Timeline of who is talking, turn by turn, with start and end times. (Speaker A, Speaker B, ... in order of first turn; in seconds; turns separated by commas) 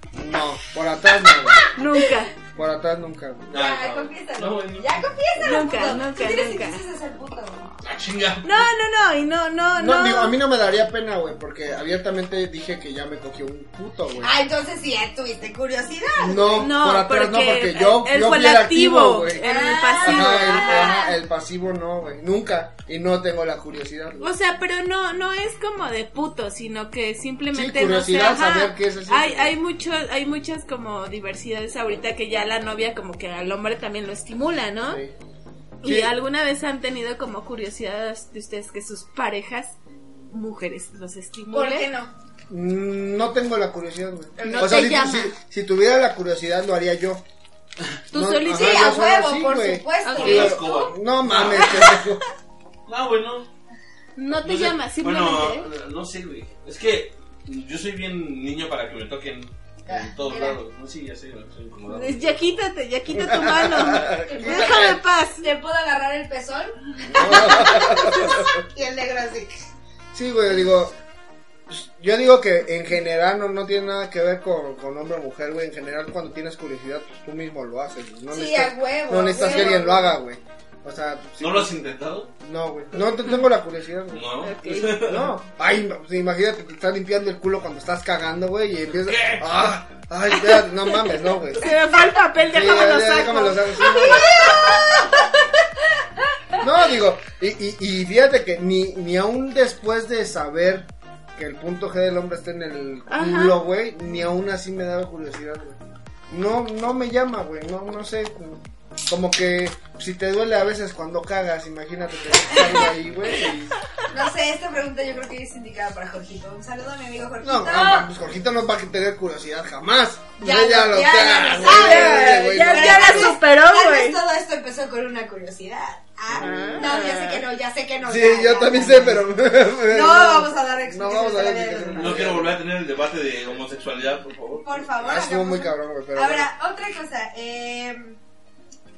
Speaker A: 0.1-1.6, Speaker B: 1.7-2.4, Speaker A: 2.5-3.6, Speaker C: 3.5-5.0, Speaker D: 3.5-7.7, Speaker B: 5.4-6.8, Speaker C: 7.8-8.6, Speaker B: 8.4-10.3, Speaker A: 9.8-14.3, Speaker D: 14.2-16.7, Speaker A: 16.2-24.3, Speaker B: 16.5-21.1, Speaker D: 19.4-21.1, Speaker B: 24.2-35.0, Speaker A: 27.5-29.6, Speaker A: 34.8-35.1, Speaker A: 35.8-36.1, Speaker B: 35.8-41.9, Speaker D: 41.5-42.1, Speaker A: 42.5-47.2, Speaker D: 44.4-44.8, Speaker B: 44.4-45.3, Speaker B: 48.1-49.0, Speaker A: 48.1-52.2, Speaker D: 48.5-50.6, Speaker B: 50.0-50.8, Speaker C: 50.1-51.9, Speaker B: 51.6-52.0, Speaker C: 52.9-53.5, Speaker B: 54.1-55.7, Speaker C: 54.3-62.4, Speaker D: 59.9-60.6, Speaker B: 61.9-65.5, Speaker A: 63.1-65.0, Speaker D: 64.3-64.7, Speaker D: 65.4-69.5, Speaker A: 67.1-68.6, Speaker B: 67.3-68.0, Speaker A: 70.1-71.0, Speaker A: 71.7-81.8, Speaker D: 78.3-80.2, Speaker C: 81.4-82.3, Speaker A: 82.4-84.3, Speaker C: 84.1-85.3, Speaker B: 84.4-85.0, Speaker A: 84.9-91.7, Speaker C: 89.0-89.5, Speaker B: 91.5-94.9, Speaker A: 92.4-94.3, Speaker D: 93.8-95.4, Speaker A: 96.6-113.8, Speaker B: 103.1-103.6, Speaker D: 114.1-118.1, Speaker A: 117.4-123.4, Speaker D: 120.4-129.3, Speaker B: 121.6-124.2, Speaker A: 126.3-126.9, Speaker B: 126.4-127.4, Speaker A: 128.0-132.6, Speaker D: 129.9-132.4, Speaker C: 131.9-134.9, Speaker D: 134.6-138.2, Speaker A: 135.0-136.5